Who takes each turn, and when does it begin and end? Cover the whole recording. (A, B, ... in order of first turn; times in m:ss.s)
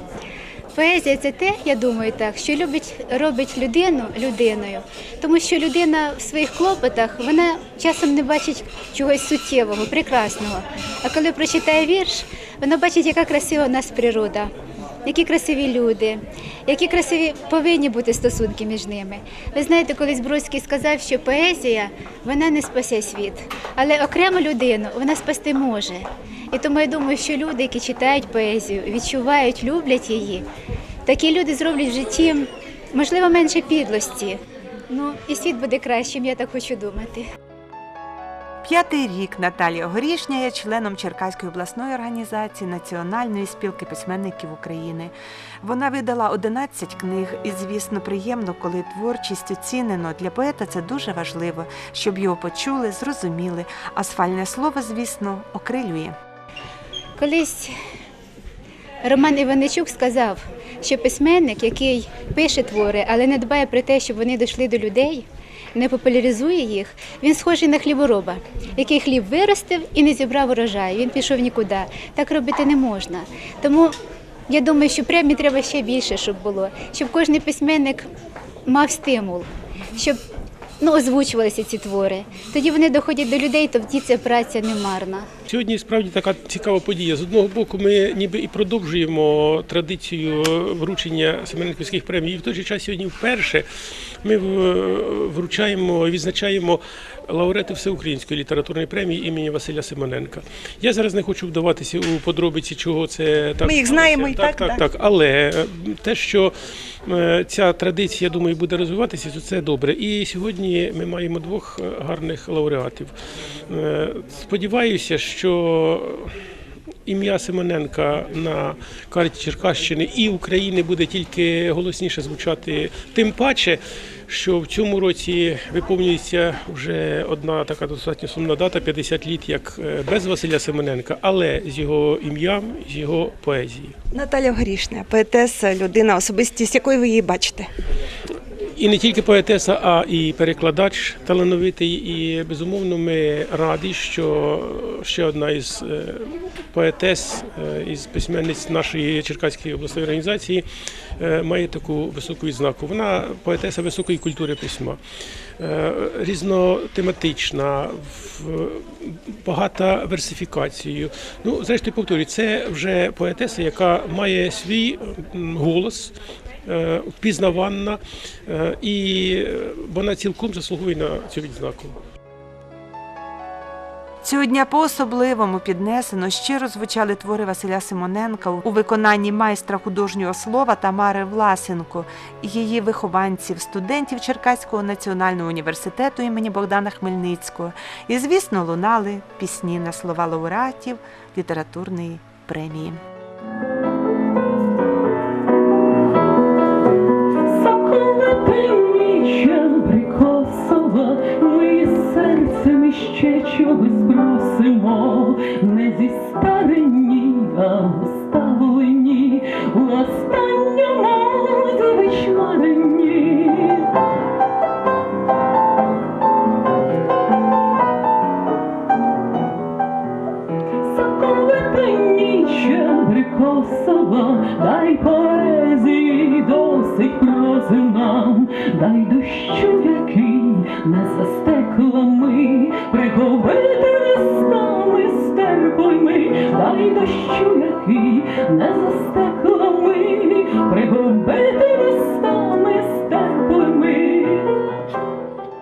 0:00.7-0:14.5 A
0:15.0-0:30.4 A
0:31.1-0:37.3 A
0:38.6-0:56.2 B
0:57.2-0:57.8 A
0:59.0-1:14.0 A
1:14.5-1:18.1 A
1:18.7-1:20.2 A
1:20.8-1:25.3 A
1:25.5-1:33.7 C
1:34.2-1:46.5 C
1:43.6-1:44.8 D
1:47.0-1:53.1 C
1:53.7-1:56.4 C
1:57.1-2:13.9 C
2:14.1-2:17.7 D
2:18.8-2:30.6 C
2:31.2-2:35.0 C
2:35.6-2:52.0 C
2:54.2-3:13.0 B
3:17.5-3:33.9 E
3:40.8-4:04.6 E